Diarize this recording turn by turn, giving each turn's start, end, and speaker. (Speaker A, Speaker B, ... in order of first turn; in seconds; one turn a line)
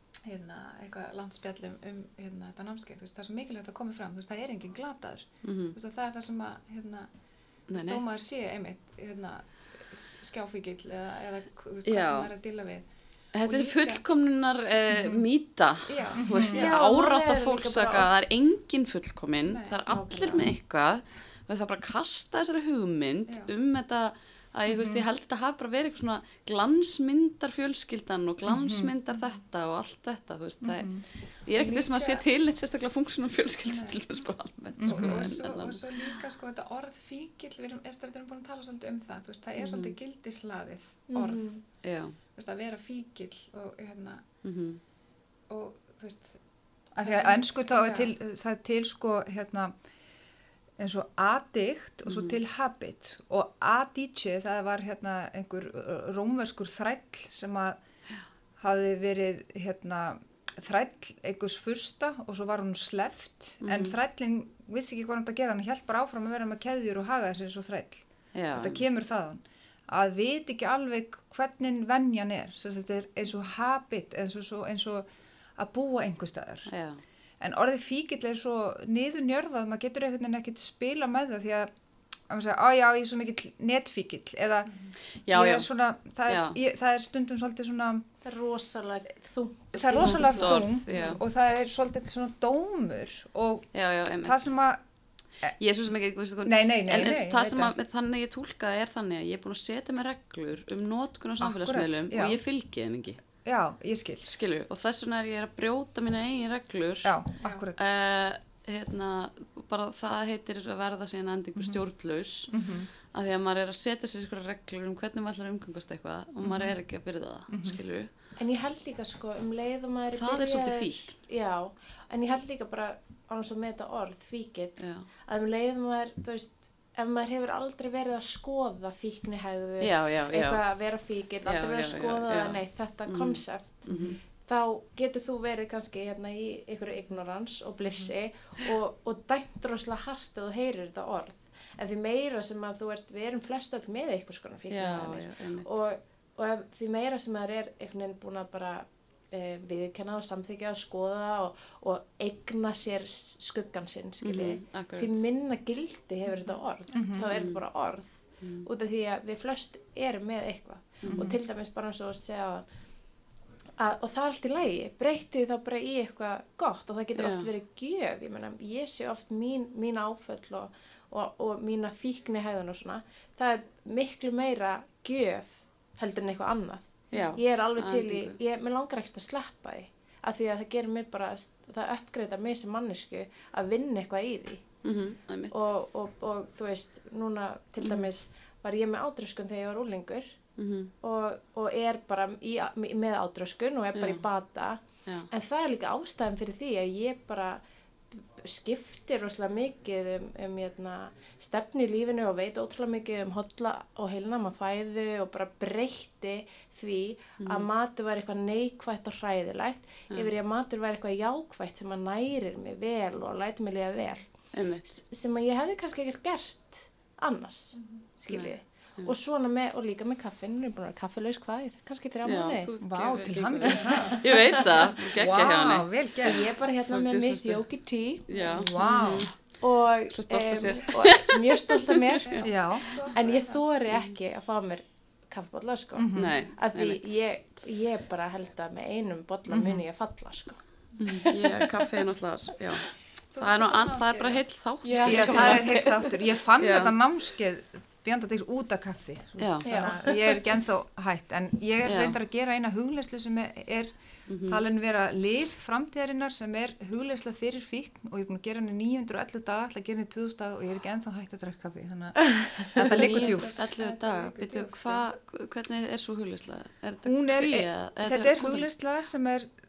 Speaker A: 0.2-14.0
Speaker B: 5.4-5.7
Speaker B: 7.7-8.0
Speaker B: 11.8-12.3
Speaker B: 13.3-35.8
Speaker C: 14.9-15.2
Speaker A: 15.9-16.6
Speaker C: 16.2-16.7
Speaker D: 16.5-18.2
Speaker A: 19.5-20.0
Speaker D: 19.9-20.5
Speaker C: 24.7-25.0
Speaker C: 28.4-28.9
Speaker C: 30.6-31.0
Speaker A: 31.6-32.2
Speaker A: 33.6-34.0
Speaker C: 34.8-35.3
Speaker A: 34.8-44.2
Speaker B: 39.6-40.0
Speaker D: 41.1-41.6
Speaker B: 41.8-42.1
Speaker B: 44.4-44.8
Speaker A: 45.5-46.4
Speaker C: 46.9-49.7
Speaker A: 47.0-48.1
Speaker C: 50.8-57.8
Speaker B: 52.1-52.4
Speaker C: 58.6-76.7
Speaker B: 63.6-64.0
Speaker B: 68.3-68.8
Speaker B: 76.7-77.0
Speaker C: 77.4-81.7
Speaker C: 82.3-84.7
Speaker B: 85.2-85.7
Speaker C: 85.3-88.0
Speaker B: 86.2-86.6
Speaker D: 88.2-90.7
Speaker C: 89.7-94.8
Speaker B: 90.0-91.2
Speaker B: 93.7-94.5
Speaker B: 95.6-103.2
Speaker C: 96.4-97.7
Speaker C: 101.4-102.4
Speaker C: 103.4-104.3
Speaker B: 104.2-107.1
Speaker C: 107.0-107.9
Speaker B: 107.8-112.6
Speaker C: 112.5-112.9
Speaker B: 113.1-118.1
Speaker C: 116.4-116.8
Speaker C: 117.5-117.8
Speaker D: 118.4-162.7
Speaker B: 120.1-121.2
Speaker B: 124.8-125.0
Speaker B: 129.8-130.6
Speaker B: 131.4-134.2
Speaker C: 133.9-134.2
Speaker B: 144.7-145.8
Speaker B: 154.2-155.2
Speaker C: 156.9-157.3
Speaker B: 157.3-157.6
Speaker B: 158.4-158.7
Speaker B: 161.0-161.3
Speaker C: 161.1-161.4
Speaker D: 163.8-184.8
Speaker B: 167.2-167.5
Speaker B: 177.1-178.4
Speaker B: 184.8-185.7
Speaker D: 185.5-190.4
Speaker B: 187.8-188.1
Speaker B: 190.6-190.9
Speaker D: 191.0-197.6
Speaker B: 193.9-194.2
Speaker D: 198.1-214.3
Speaker B: 207.4-207.7
Speaker B: 214.5-215.0
Speaker D: 214.8-222.7
Speaker A: 217.7-218.1
Speaker B: 218.3-219.1
Speaker B: 222.2-227.6
Speaker C: 222.8-224.3
Speaker D: 223.8-224.9
Speaker C: 225.0-226.5
Speaker D: 226.2-241.7
Speaker B: 228.3-229.3
Speaker A: 228.3-228.6
Speaker C: 228.5-229.3
Speaker B: 230.1-233.1
Speaker A: 232.2-233.6
Speaker C: 232.4-232.9
Speaker C: 235.9-236.4
Speaker B: 236.1-237.1
Speaker C: 239.5-239.8
Speaker B: 241.2-246.9
Speaker A: 243.3-244.4
Speaker D: 244.8-246.1
Speaker C: 245.1-253.9
Speaker B: 249.4-249.9
Speaker D: 249.6-250.4
Speaker B: 251.8-252.2
Speaker B: 254.3-254.6
Speaker C: 254.4-263.6
Speaker B: 262.8-268.7
Speaker A: 262.9-265.0
Speaker C: 267.0-269.5